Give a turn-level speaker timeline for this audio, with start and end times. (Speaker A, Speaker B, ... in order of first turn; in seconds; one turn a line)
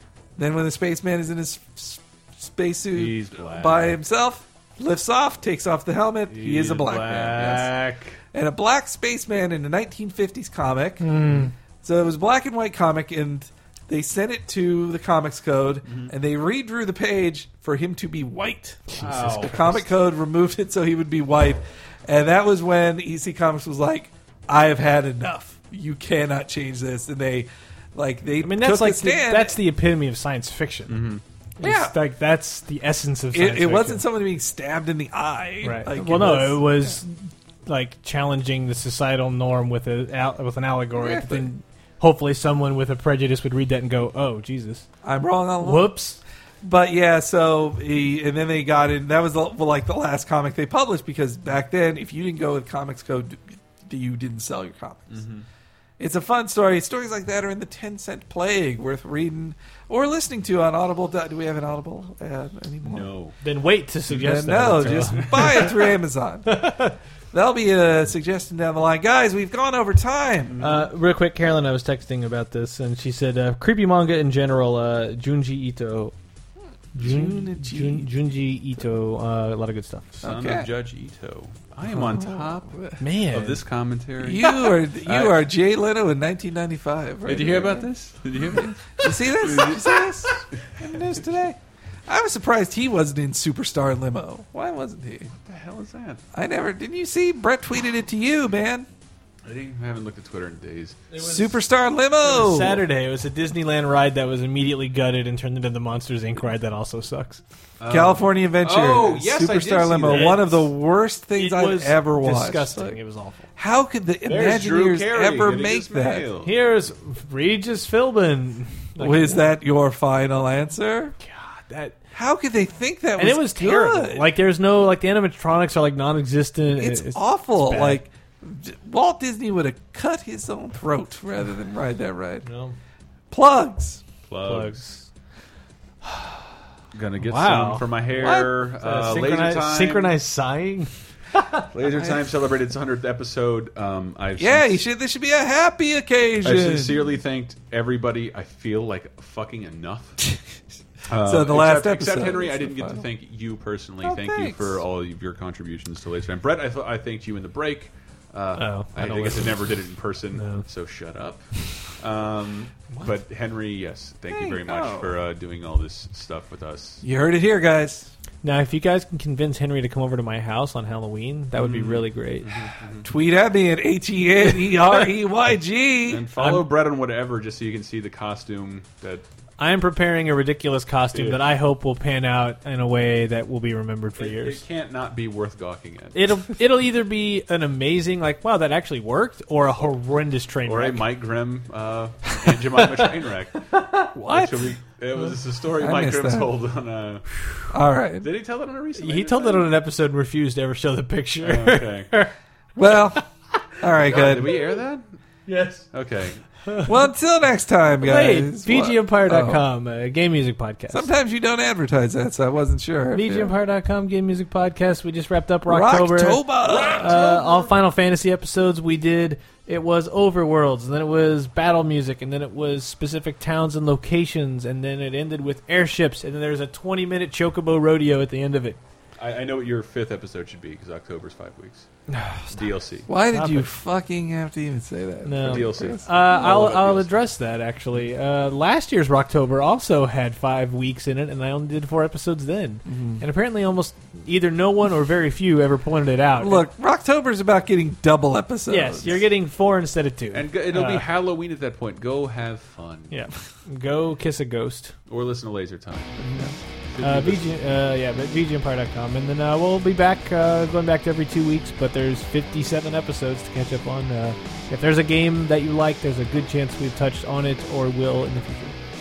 Speaker A: 0.4-7.7
Speaker B: 2.9-4.0
Speaker B: 6.3-8.2
Speaker A: 8.3-29.6
Speaker C: 11.0-11.5
Speaker B: 15.9-16.1
Speaker B: 19.0-19.9
Speaker C: 28.4-31.1
Speaker B: 30.9-31.2
Speaker C: 31.6-34.0
Speaker A: 31.6-32.0
Speaker A: 33.3-37.0
Speaker C: 35.6-44.9
Speaker A: 41.0-41.5
Speaker A: 45.0-45.9
Speaker C: 45.6-46.2
Speaker A: 46.6-55.2
Speaker B: 55.1-55.5
Speaker A: 56.0-63.1
Speaker B: 62.8-63.4
Speaker C: 63.4-65.9
Speaker A: 64.1-70.6
Speaker C: 66.5-67.0
Speaker B: 70.5-70.9
Speaker C: 70.6-76.1
Speaker A: 76.9-78.1
Speaker C: 77.0-80.2
Speaker A: 80.2-80.7
Speaker B: 80.2-85.4
Speaker A: 81.9-83.0
Speaker C: 83.0-83.6
Speaker A: 84.2-87.9
Speaker B: 87.3-90.1
Speaker A: 88.5-95.3
Speaker B: 95.3-96.2
Speaker A: 96.3-98.9
Speaker B: 99.5-101.1
Speaker C: 101.1-101.5
Speaker A: 101.2-102.8
Speaker C: 102.2-107.4
Speaker B: 107.8-110.7
Speaker A: 107.9-113.0
Speaker C: 110.1-110.4
Speaker C: 111.3-113.5
Speaker A: 113.6-116.3
Speaker B: 114.2-116.5
Speaker C: 116.4-119.5
Speaker A: 119.0-121.2
Speaker C: 121.2-122.0
Speaker A: 122.1-124.3
Speaker C: 123.2-128.0
Speaker A: 126.8-132.5
Speaker C: 132.4-132.8
Speaker A: 133.3-134.0
Speaker B: 134.3-134.8
Speaker C: 134.4-135.1
Speaker C: 136.0-136.4
Speaker B: 136.9-140.1
Speaker C: 137.2-137.9
Speaker A: 138.1-138.5
Speaker C: 138.8-141.7
Speaker B: 141.7-144.8
Speaker A: 141.8-142.2
Speaker A: 144.4-147.1
Speaker B: 146.4-150.3
Speaker B: 151.1-167.0
Speaker A: 151.2-153.1
Speaker A: 154.0-154.8
Speaker C: 158.6-159.7
Speaker C: 160.3-160.7
Speaker A: 164.3-165.1
Speaker A: 167.0-168.1
Speaker C: 168.4-172.6
Speaker B: 171.6-173.1
Speaker A: 173.0-176.3
Speaker B: 176.1-179.2
Speaker C: 176.4-176.7
Speaker C: 179.6-184.6
Speaker B: 181.1-181.4
Speaker B: 184.2-186.2
Speaker C: 186.1-191.1
Speaker B: 190.6-193.6
Speaker C: 192.3-194.1
Speaker A: 194.1-194.7
Speaker B: 194.3-197.4
Speaker A: 195.8-196.5
Speaker A: 197.7-198.3
Speaker B: 198.2-199.7
Speaker C: 198.9-202.3
Speaker B: 201.4-202.1
Speaker A: 202.8-203.2
Speaker C: 202.9-203.6
Speaker A: 203.8-204.8
Speaker B: 203.9-205.1
Speaker C: 205.5-205.9
Speaker B: 205.9-206.5
Speaker C: 206.7-206.9
Speaker A: 206.8-209.7
Speaker C: 208.0-211.1
Speaker A: 210.9-213.6
Speaker C: 213.1-228.8
Speaker A: 215.7-217.2
Speaker B: 216.6-217.7
Speaker B: 229.2-231.9
Speaker C: 232.1-232.5
Speaker B: 232.5-233.1
Speaker A: 233.1-236.1
Speaker C: 233.3-233.7
Speaker C: 235.2-246.6
Speaker B: 235.4-237.1
Speaker A: 242.9-243.2
Speaker A: 246.4-249.2
Speaker C: 248.7-251.1
Speaker B: 250.3-253.2
Speaker C: 253.1-254.9
Speaker B: 255.1-256.1
Speaker A: 256.2-256.6
Speaker B: 256.9-257.5
Speaker C: 257.0-268.8